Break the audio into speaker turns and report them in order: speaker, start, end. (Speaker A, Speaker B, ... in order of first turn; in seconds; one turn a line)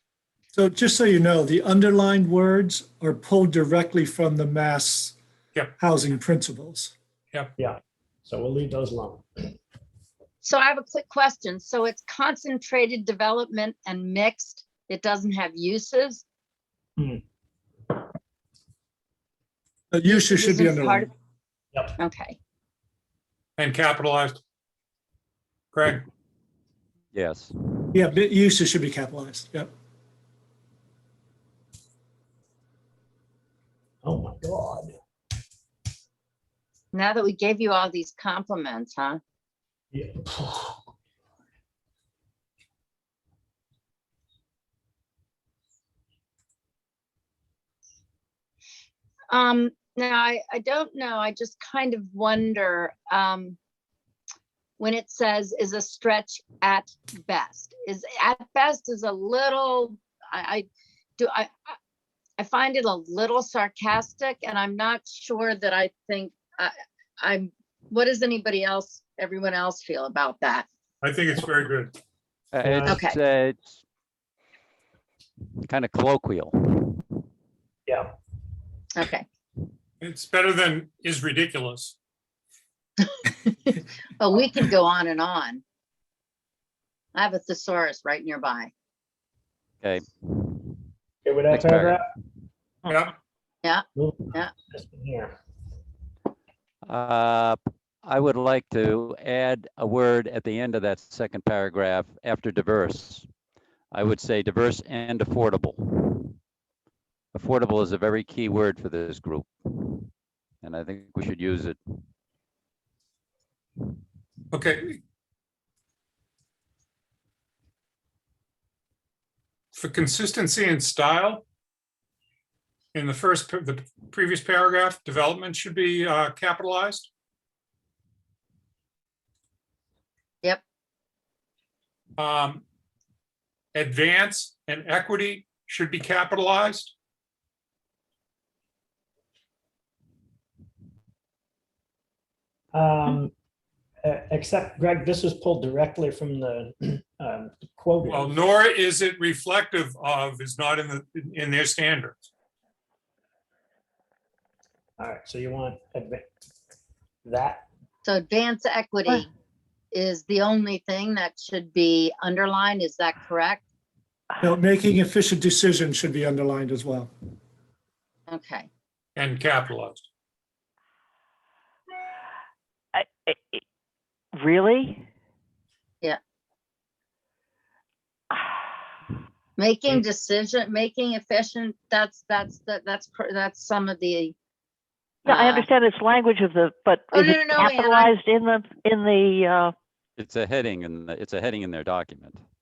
Speaker A: 0.5-5.2
Speaker A: 5.8-6.9
Speaker B: 7.6-9.6
Speaker C: 10.4-16.2
Speaker B: 17.0-17.2
Speaker A: 19.9-21.1
Speaker C: 20.1-21.1
Speaker C: 22.0-22.4
Speaker D: 23.6-24.4
Speaker D: 25.7-26.1
Speaker E: 27.1-27.8
Speaker A: 27.9-29.7
Speaker B: 34.0-35.0
Speaker C: 36.9-39.2
Speaker B: 39.9-40.8
Speaker C: 49.3-53.6
Speaker C: 54.8-60.7
Speaker C: 61.2-61.8
Speaker C: 62.4-70.7
Speaker D: 71.0-71.9
Speaker E: 72.5-73.8
Speaker B: 72.6-73.0
Speaker C: 72.9-73.2
Speaker E: 75.7-77.1
Speaker B: 77.9-78.1
Speaker C: 78.9-79.3
Speaker D: 80.0-82.0
Speaker C: 83.0-85.6
Speaker C: 87.1-88.7
Speaker E: 89.8-90.8
Speaker B: 91.2-92.0
Speaker E: 91.5-92.0
Speaker D: 92.9-93.2
Speaker C: 93.6-94.5
Speaker B: 94.0-95.3
Speaker E: 96.8-103.3
Speaker E: 103.9-106.3
Speaker E: 107.3-110.1
Speaker E: 110.6-111.8
Speaker D: 114.5-115.0
Speaker D: 119.7-121.5
Speaker D: 122.9-127.1
Speaker D: 132.2-132.6
Speaker D: 133.7-136.9
Speaker B: 142.7-143.3
Speaker B: 144.0-148.4
Speaker D: 148.1-152.3
Speaker B: 155.0-156.3
Speaker B: 157.2-157.7
Speaker C: 158.1-159.3
Speaker C: 159.9-163.6
Speaker A: 164.4-167.1
Speaker C: 168.3-168.7
Speaker D: 169.2-170.1
Speaker F: 172.9-173.6
Speaker F: 174.3-175.1
Speaker C: 179.6-184.3
Speaker F: 185.2-189.7
Speaker C: 185.3-185.7
Speaker C: 187.1-188.1
Speaker E: 190.2-192.4